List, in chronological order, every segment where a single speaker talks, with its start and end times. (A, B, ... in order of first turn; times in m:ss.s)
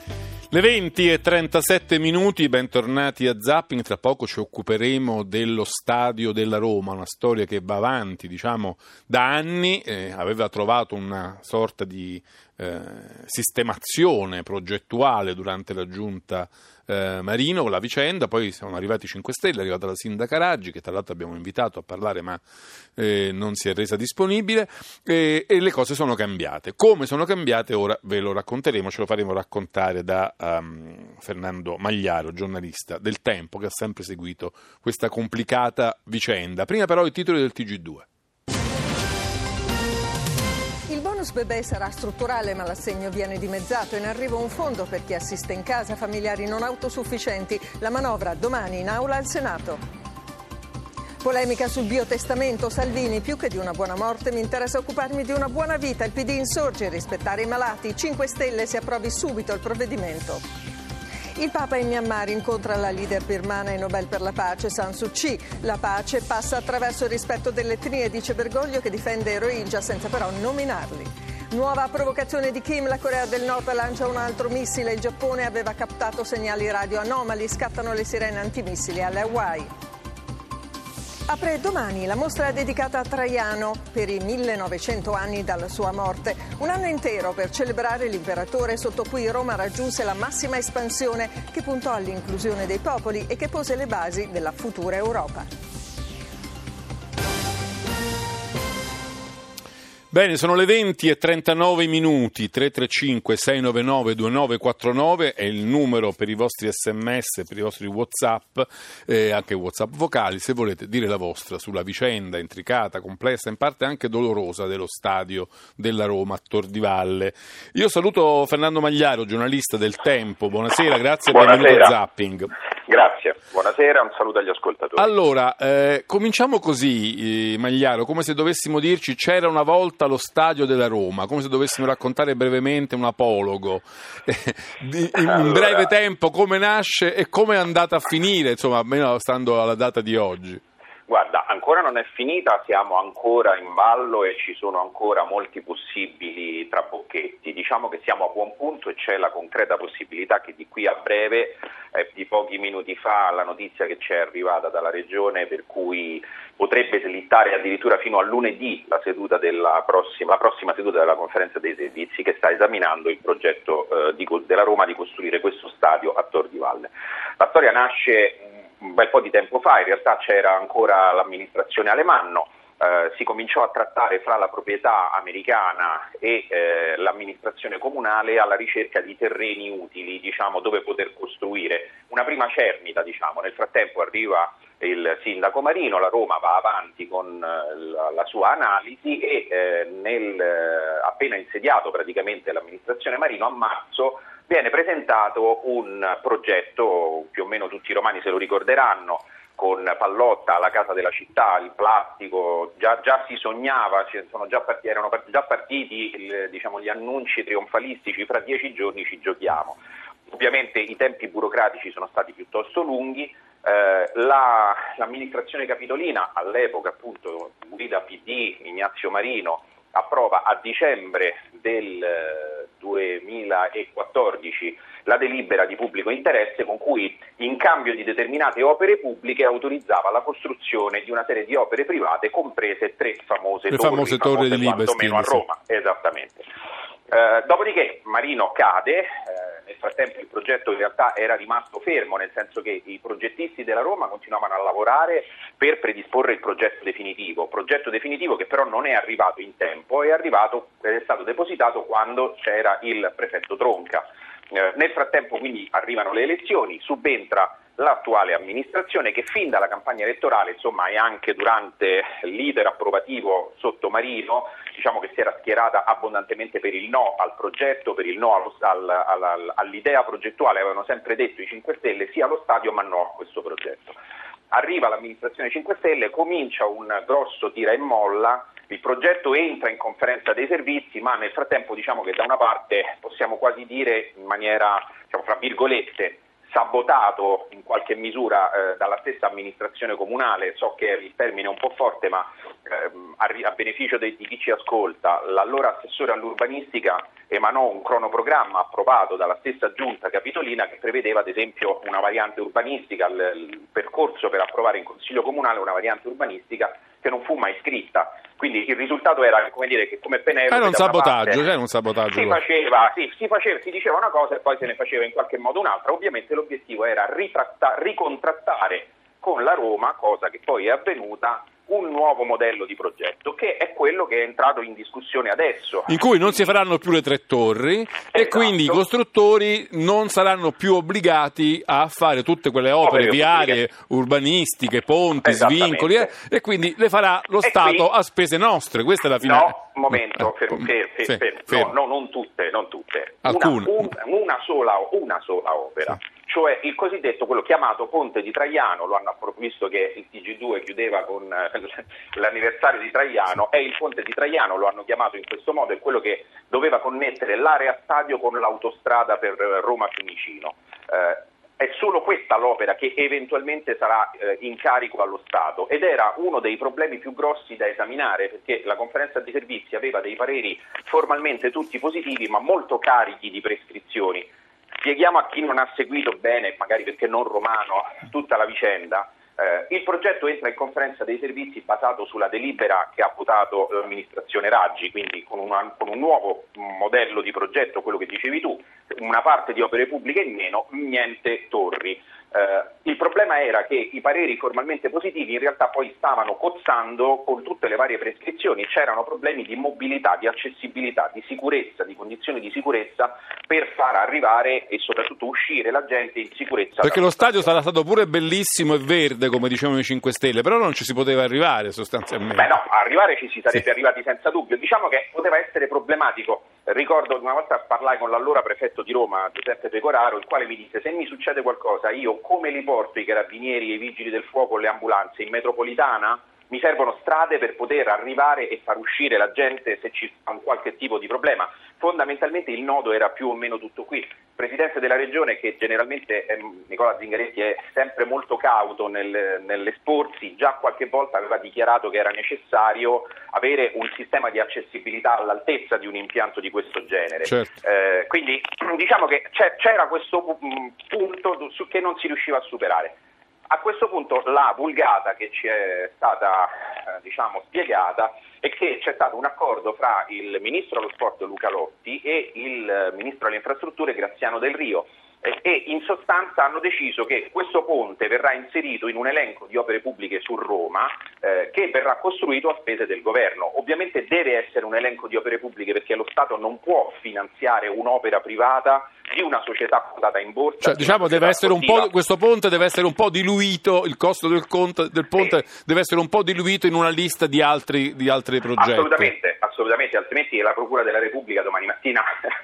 0:00.5-0:22.4 A
0:23.0-0:38.0 A
0:40.9-0:49.8 B
0:51.2-1:00.4 B
1:01.4-1:19.7 B
1:21.3-1:35.5 B
1:40.1-2:02.5 A
2:01.3-2:01.9 C
2:02.9-2:05.1 C
2:05.0-2:20.6 A
2:15.3-2:15.9 C
2:21.1-3:29.8 C
3:30.3-3:56.4 C
3:53.7-3:55.4 A
3:57.1-4:34.0 C
4:34.5-5:11.5 C
5:10.5-5:12.4 A
5:12.1-5:26.5 C
5:25.9-5:39.6 A
5:28.1-5:28.8 C
5:32.8-5:33.6 C
5:35.2-5:36.1 C
5:37.4-5:37.9 C
5:39.2-6:14.3 C
5:41.1-5:41.7 A
5:43.2-5:43.8 A
6:14.8-6:47.4 C
6:46.8-6:52.5 A
6:52.4-7:33.0 C
7:33.5-8:01.9 C
8:00.6-8:09.1 A
8:08.6-8:12.1 C